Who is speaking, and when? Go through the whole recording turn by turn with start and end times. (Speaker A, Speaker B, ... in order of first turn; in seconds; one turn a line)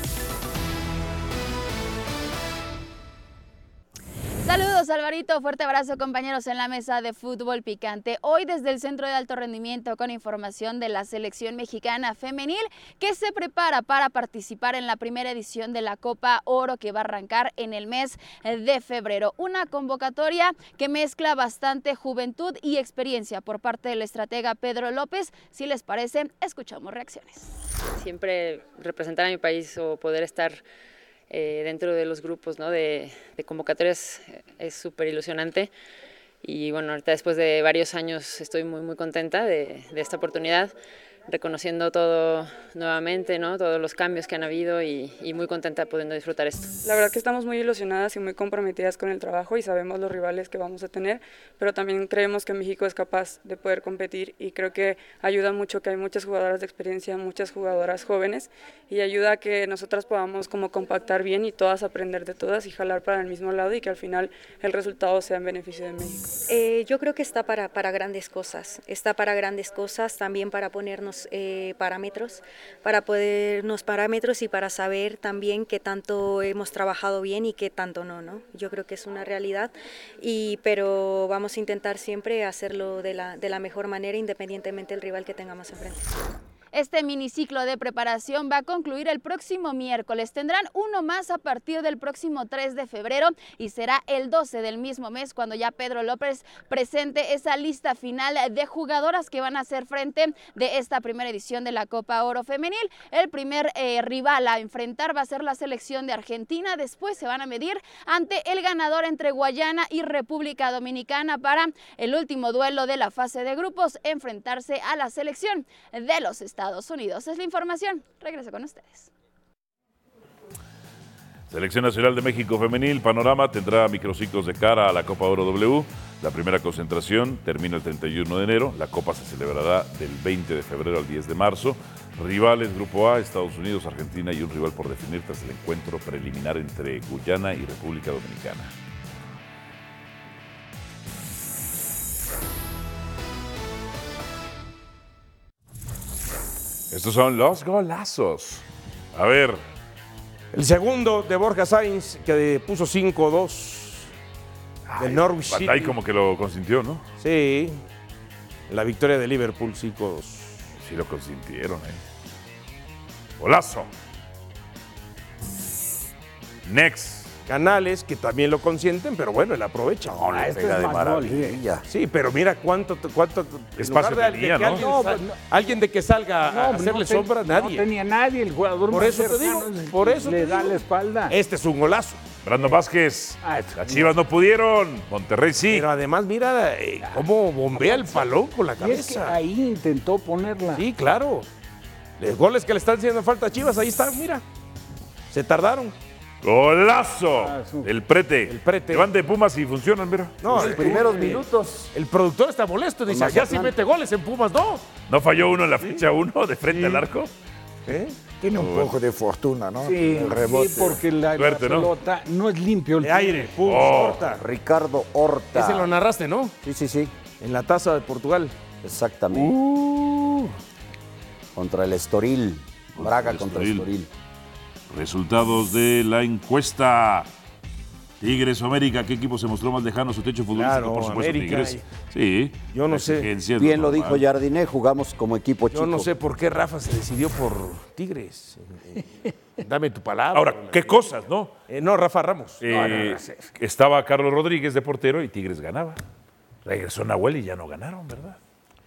Speaker A: 4.4-27.5
Speaker B: 27.9-30.6
Speaker B: 31.3-35.7
Speaker B: 36.4-40.7
Speaker B: 41.3-46.7
Speaker C: 46.8-66.2
Speaker D: 66.5-86.1
Speaker A: 86.7-119.1
Speaker E: 121.5-138.7
Speaker E: 146.9-149.6
Speaker F: 150.5-154.1
Speaker E: 154.9-157.0
Speaker F: 155.0-155.9
Speaker F: 157.2-157.8
Speaker F: 158.7-160.6
Speaker E: 160.8-162.0
Speaker E: 163.4-163.9
Speaker E: 166.7-167.3
Speaker F: 167.5-170.2
Speaker G: 170.1-171.8
Speaker H: 170.3-171.6
Speaker F: 171.9-177.9
Speaker E: 173.8-174.8
Speaker H: 174.6-175.4
Speaker H: 176.5-181.4
Speaker F: 178.9-182.2
Speaker E: 182.4-185.9
Speaker H: 183.4-184.1
Speaker F: 185.7-189.4
Speaker H: 187.8-190.8
Speaker F: 190.8-191.5
Speaker F: 192.2-194.4
Speaker F: 195.3-195.9
Speaker E: 196.4-200.5
Speaker H: 197.4-197.9
Speaker F: 198.5-199.1
Speaker F: 200.4-201.4
Speaker G: 200.5-201.9
Speaker F: 201.9-204.8
Speaker G: 203.1-203.8
Speaker E: 205.1-207.3
Speaker F: 206.7-207.1
Speaker F: 207.9-208.2
Speaker I: 208.4-211.0
Speaker E: 208.5-208.9
Speaker H: 209.8-213.6
Speaker E: 211.4-211.9
Speaker F: 213.0-214.4
Speaker E: 213.7-214.2
Speaker G: 214.3-215.9
Speaker F: 215.5-216.6
Speaker G: 216.6-217.1
Speaker F: 217.4-218.6
Speaker G: 218.8-219.6
Speaker F: 219.3-220.4
Speaker G: 221.6-224.1
Speaker E: 222.9-223.9
Speaker E: 224.9-227.3
Speaker E: 228.2-234.2
Speaker F: 230.5-231.8
Speaker F: 232.7-233.3
Speaker G: 233.6-236.1
Speaker F: 235.7-239.0
Speaker F: 239.6-241.0
Speaker E: 240.3-241.5
Speaker F: 241.7-242.9
Speaker E: 242.6-246.0
Speaker H: 242.7-243.5
Speaker E: 246.7-248.4